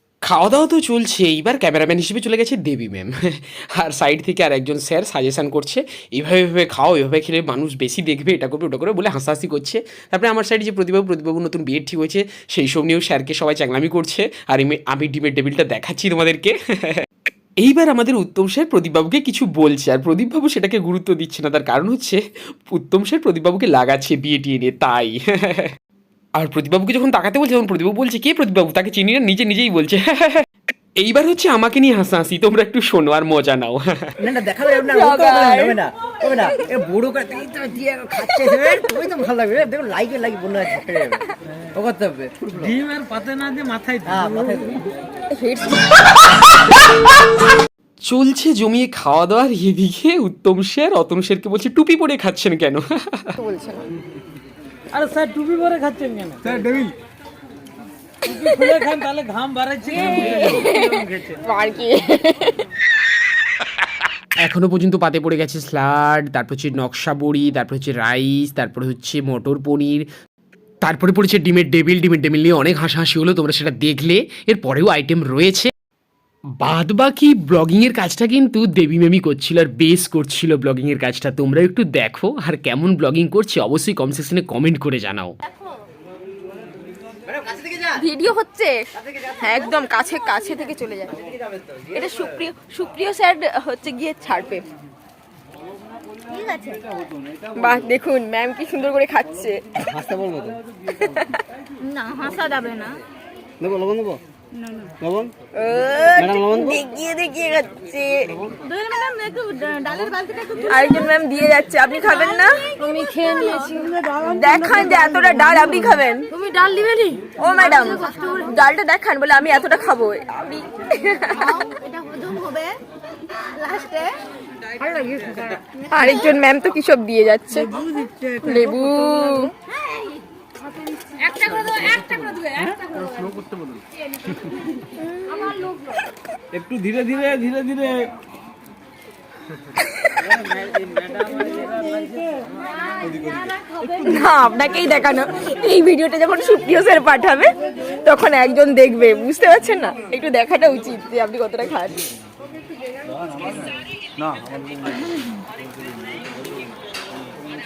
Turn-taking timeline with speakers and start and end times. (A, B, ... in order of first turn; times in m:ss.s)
0:00.3-0:17.1 A
0:17.6-0:25.7 A
0:26.4-0:30.4 A
0:31.0-0:34.1 A
0:34.2-0:42.7 B
0:34.8-0:35.8 C
0:42.6-0:44.6 D
0:44.1-0:44.8 B
0:45.3-0:46.5 C
0:48.1-0:53.4 A
0:53.4-0:53.8 C
0:54.9-0:56.9 D
0:58.2-1:01.3 D
0:58.4-0:58.7 C
1:00.0-1:02.6 C
1:04.4-1:10.1 A
1:10.8-1:15.7 A
1:16.6-1:25.3 A
1:27.9-1:31.2 C
1:31.9-1:34.6 C
1:36.4-1:36.7 C
1:37.5-1:39.6 C
1:39.8-1:40.6 B
1:40.9-1:41.4 C
1:42.0-1:42.9 E
1:43.6-1:44.2 B
1:45.0-1:45.3 B
1:45.5-1:48.9 C
1:46.2-1:46.8 B
1:49.1-1:49.9 E
1:49.9-1:50.4 D
1:50.6-2:01.7 C
1:53.9-1:54.2 D
2:02.3-2:02.6 E
2:03.6-2:04.1 C
2:05.9-2:09.5 C
2:11.2-2:11.9 C
2:13.0-2:13.3 D
2:16.5-2:18.1 D
2:19.8-2:20.4 C
2:20.9-2:22.3 D
2:24.0-2:27.5 C
2:28.0-2:32.0 C